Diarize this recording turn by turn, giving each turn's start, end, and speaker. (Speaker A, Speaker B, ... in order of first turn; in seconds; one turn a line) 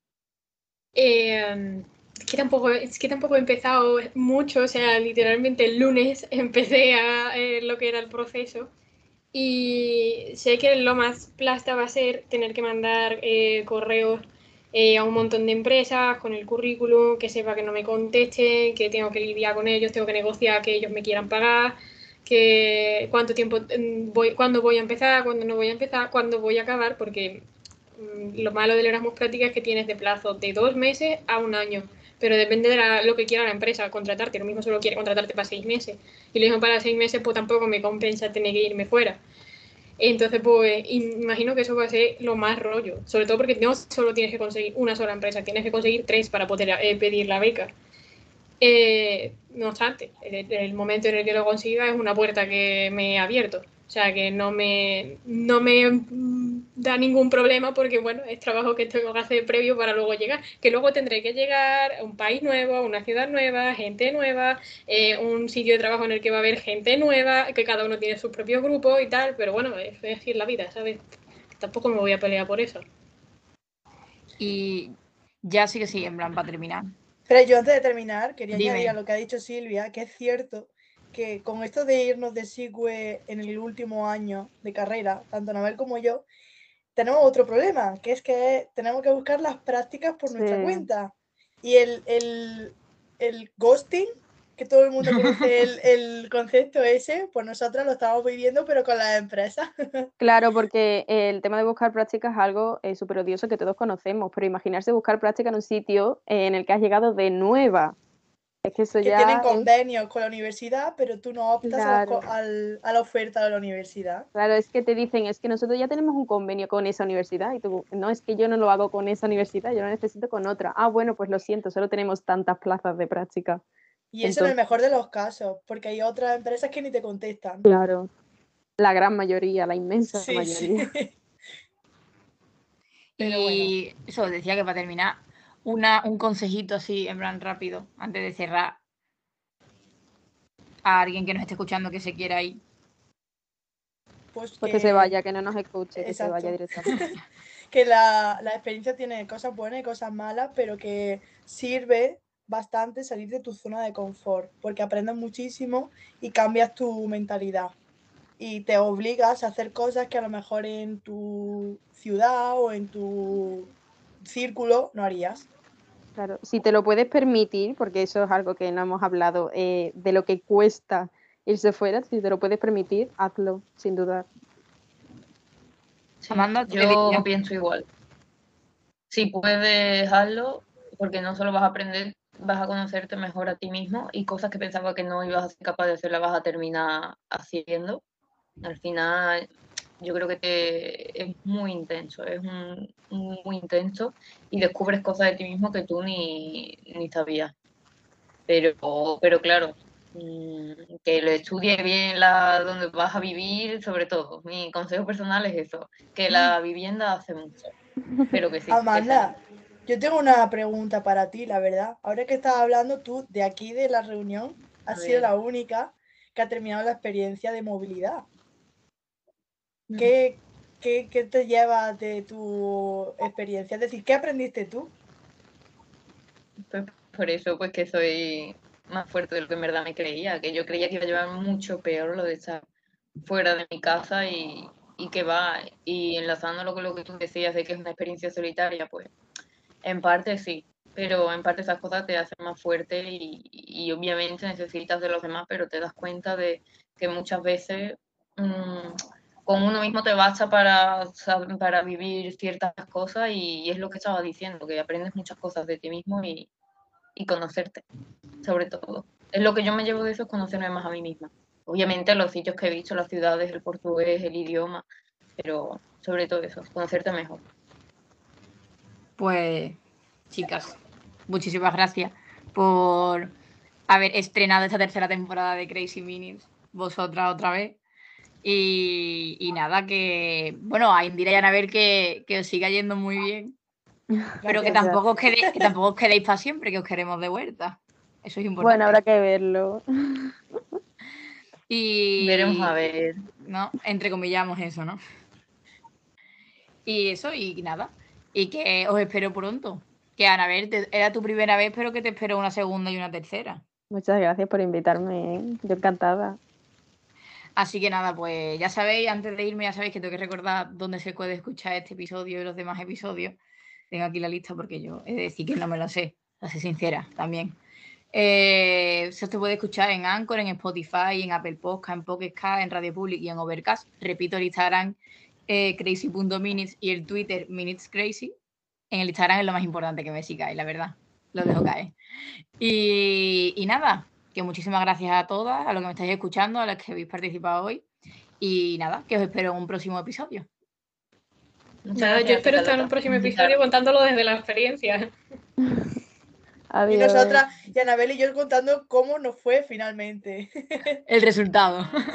Speaker A: 0.9-8.7
Speaker A: 9.3-27.4
Speaker A: 28.0-39.2
Speaker A: 40.0-47.7
Speaker A: 48.6-71.0
Speaker A: 71.5-72.8
Speaker B: 74.4-76.9
Speaker C: 77.3-86.3
Speaker B: 78.5-79.0
Speaker C: 87.0-100.1
Speaker D: 90.3-90.8
Speaker B: 95.0-95.4
Speaker D: 100.2-108.0
Speaker D: 108.6-109.7
Speaker C: 109.0-114.3
Speaker D: 111.6-112.2
Speaker D: 114.3-123.6
Speaker C: 124.1-127.6
Speaker D: 124.2-124.5
Speaker D: 127.6-128.1
Speaker D: 128.8-130.9
Speaker C: 130.1-131.1
Speaker B: 133.2-138.8
Speaker C: 133.2-133.7
Speaker B: 140.8-142.6
Speaker C: 144.3-145.2
Speaker D: 144.6-147.0
Speaker C: 146.0-147.2
Speaker C: 147.7-157.7
Speaker C: 158.4-165.5
Speaker D: 166.2-174.3
Speaker E: 176.2-177.8
Speaker B: 176.3-177.3
Speaker E: 179.1-188.0
Speaker E: 188.6-189.4
Speaker E: 190.0-197.5
Speaker E: 198.5-207.7
Speaker E: 208.2-209.3
Speaker C: 208.7-218.2
Speaker E: 214.9-215.3
Speaker C: 220.0-224.9
Speaker E: 226.7-232.6
Speaker E: 233.2-239.1
Speaker E: 239.8-256.5
Speaker E: 257.1-257.8
Speaker E: 258.4-264.8
Speaker E: 265.4-267.4
Speaker B: 269.2-269.8
Speaker B: 270.3-273.3
Speaker B: 273.9-277.8
Speaker B: 278.4-283.5
Speaker D: 284.1-285.0
Speaker C: 284.4-284.9
Speaker B: 284.4-289.0
Speaker D: 288.6-290.3
Speaker B: 291.7-292.7
Speaker E: 292.2-293.2
Speaker B: 293.4-295.0
Speaker B: 296.9-303.6
Speaker D: 303.9-306.4
Speaker B: 307.6-313.4
Speaker B: 313.9-317.6
Speaker B: 318.1-328.3
Speaker B: 328.9-331.9
Speaker B: 332.6-337.8
Speaker B: 338.4-340.5
Speaker E: 341.8-343.5
Speaker A: 341.9-345.1
Speaker D: 345.6-345.9
Speaker D: 346.7-347.4
Speaker C: 346.9-351.0
Speaker B: 351.1-351.9